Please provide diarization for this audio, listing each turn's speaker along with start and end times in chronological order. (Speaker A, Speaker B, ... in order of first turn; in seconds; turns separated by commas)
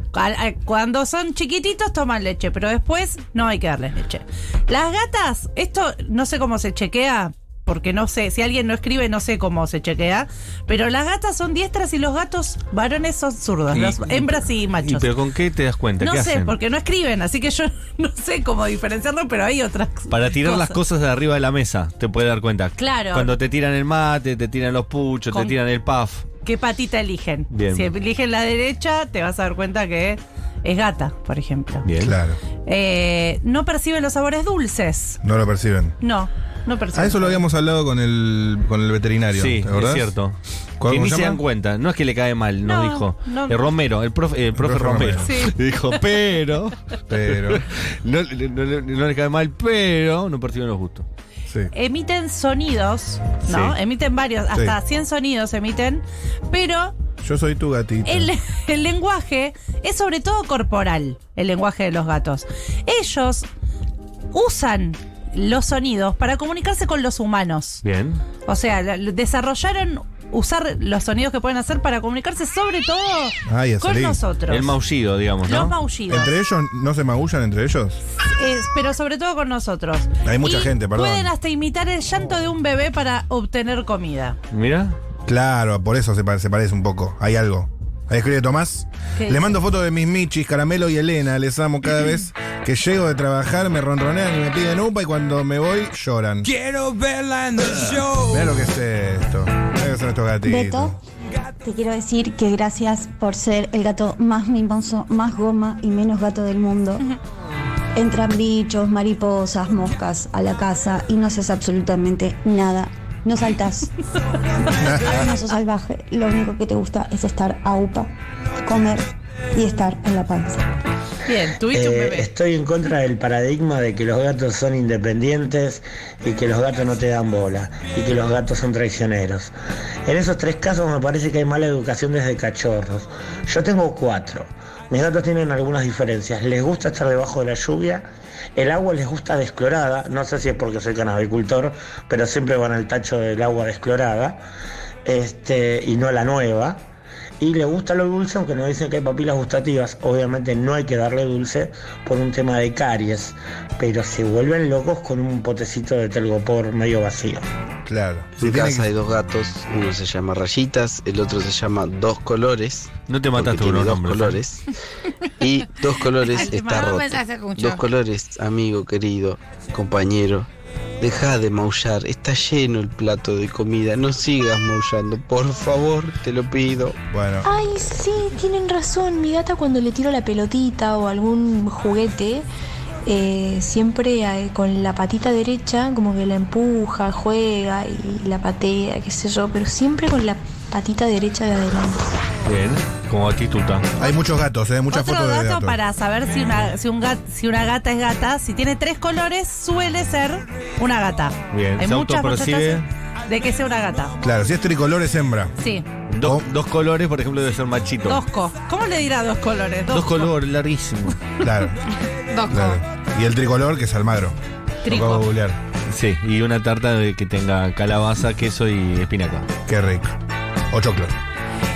Speaker A: 0.1-15.1, Speaker B: 13.7-16.6, Speaker A: 16.0-20.8, Speaker B: 20.1-26.2, Speaker A: 22.8-23.4, Speaker A: 25.3-25.6, Speaker A: 26.4-31.9, Speaker B: 27.5-27.9, Speaker B: 31.8-32.2, Speaker C: 32.0-32.4, Speaker A: 32.6-35.2, Speaker C: 35.2-36.0, Speaker A: 36.0-37.4, Speaker C: 36.9-40.1, Speaker B: 39.3-51.0, Speaker C: 40.8-41.4, Speaker A: 42.6-43.6, Speaker C: 44.5-45.3, Speaker A: 45.2-45.6, Speaker C: 47.1-47.6, Speaker A: 51.7-56.9, Speaker B: 53.5-53.7, Speaker C: 54.5-54.8, Speaker C: 57.2-58.3, Speaker A: 58.0-63.5, Speaker A: 64.3-67.8, Speaker B: 67.8-68.2, Speaker A: 68.5-74.7, Speaker C: 73.5-74.2, Speaker B: 74.5-75.7, Speaker A: 75.5-76.3, Speaker C: 76.1-78.0, Speaker A: 78.2-84.4, Speaker C: 80.2-81.3, Speaker B: 84.5-85.0, Speaker C: 85.2-96.5, Speaker A: 89.2-89.5, Speaker D: 96.4-98.5, Speaker C: 98.1-101.0, Speaker E: 100.4-101.0, Speaker E: 101.6-107.0, Speaker E: 108.0-113.9, Speaker E: 114.6-118.1, Speaker C: 114.8-115.2, Speaker E: 118.6-120.7, Speaker A: 121.2-122.3, Speaker F: 121.7-129.5, Speaker F: 130.1-144.4, Speaker F: 145.0-146.8, Speaker F: 147.4-157.4, Speaker C: 157.9-158.9, Speaker G: 158.4-164.6, Speaker B: 163.1-164.4, Speaker G: 165.4-170.5, Speaker H: 166.2-167.8, Speaker A: 166.3-167.0, Speaker G: 171.0-177.0, Speaker C: 177.1-177.5, Speaker I: 177.4-182.4, Speaker I: 183.0-192.1, Speaker B: 192.4-193.9, Speaker C: 194.0-195.8, Speaker A: 194.9-204.1, Speaker B: 201.5-202.8, Speaker C: 204.2-205.5, Speaker A: 205.6-205.8, Speaker B: 206.1-208.2, Speaker C: 206.2-206.5, Speaker A: 208.0-210.3, Speaker B: 209.9-211.2, Speaker C: 211.4-211.8, Speaker H: 212.3-212.8, Speaker C: 212.5-215.6, Speaker A: 214.8-215.3, Speaker B: 215.9-219.5, Speaker C: 219.7-220.1, Speaker C: 220.7-221.1